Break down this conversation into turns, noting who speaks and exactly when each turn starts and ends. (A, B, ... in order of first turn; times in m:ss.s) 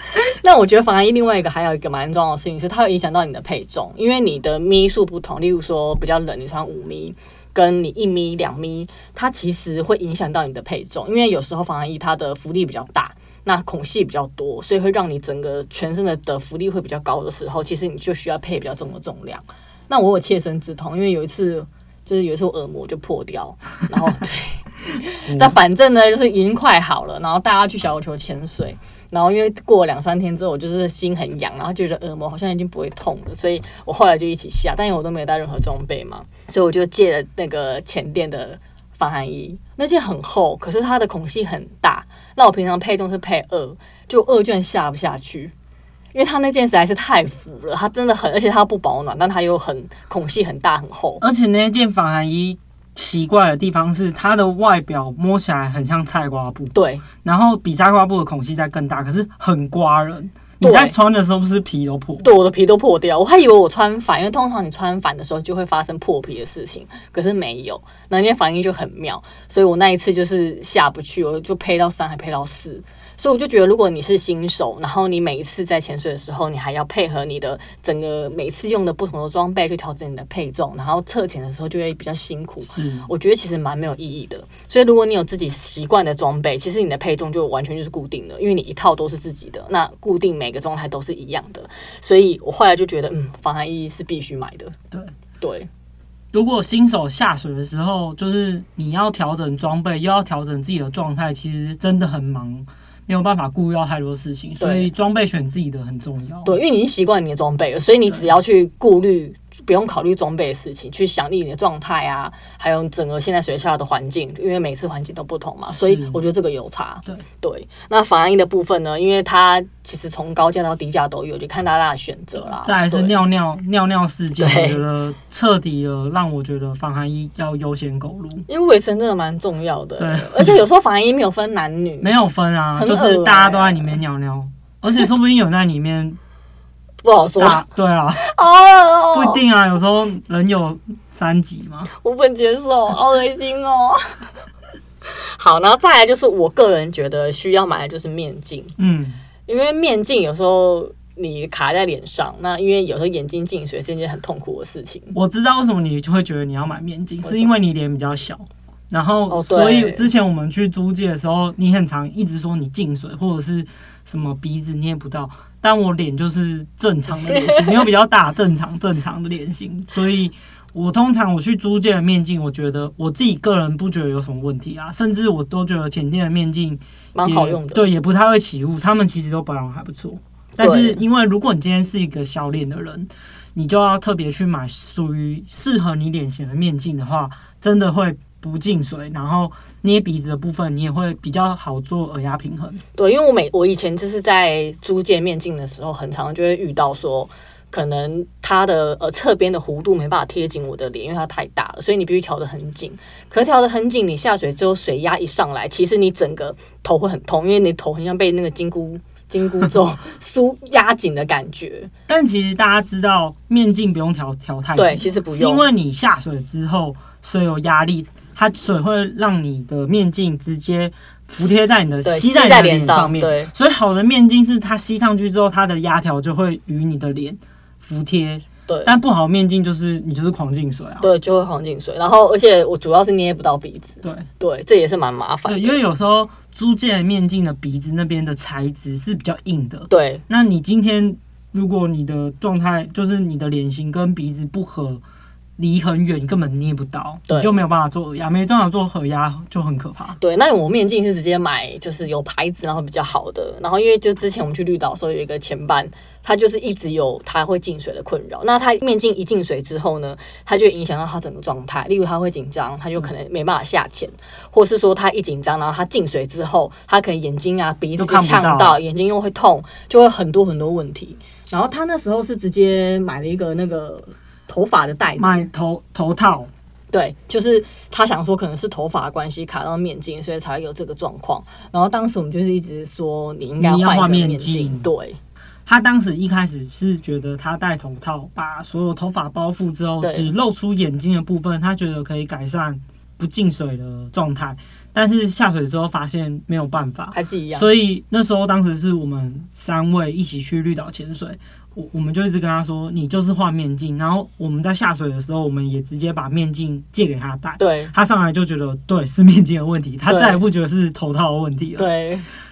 0:00.1-0:45.5 A
0:25.3-0:25.6 B
0:46.1-0:51.2 A
0:51.2-1:02.3 B
0:56.7-0:57.0 A
1:00.6-1:00.9 A
1:02.2-1:34.7 A
1:22.6-1:23.1 B
1:35.4-1:35.7 A
1:36.3-1:46.6 B
1:44.6-1:44.9 A
1:46.4-2:03.1 A
1:55.7-1:56.2 B
2:02.5-2:08.4 B
2:04.4-2:04.8 A
2:08.5-2:12.1 A
2:10.0-2:10.6 B
2:12.0-2:16.2 B
2:12.8-2:14.0 A
2:17.0-2:17.6 A
2:17.4-2:18.2 B
2:18.2-2:19.4 A
2:19.1-2:21.9 B
2:22.0-2:24.1 A
2:25.1-2:28.7 A
2:28.8-2:29.2 B
2:29.5-2:35.2 A
2:35.1-3:12.8 B
2:37.2-2:37.5 A
2:39.3-2:40.1 A
2:47.2-2:47.8 A
2:57.1-2:57.8 A
3:00.6-3:01.0 A
3:13.0-3:31.9 A
3:32.1-3:51.1 B
3:34.8-3:35.6 A
3:42.0-3:43.5 A
3:48.7-3:48.9 A
3:51.0-3:55.8 A
3:55.4-4:05.0 B
3:59.9-4:00.2 A
4:05.6-4:10.2 B
4:07.3-4:07.6 A
4:10.2-4:35.5 A
4:28.0-4:28.8 B
4:35.2-4:36.5 B
4:36.9-4:45.2 A
4:43.6-4:44.9 B
4:45.6-5:11.9 B
4:50.0-4:50.3 A
4:57.1-4:57.7 A
5:07.6-5:07.9 A
5:10.1-5:10.4 A
5:11.8-5:12.2 A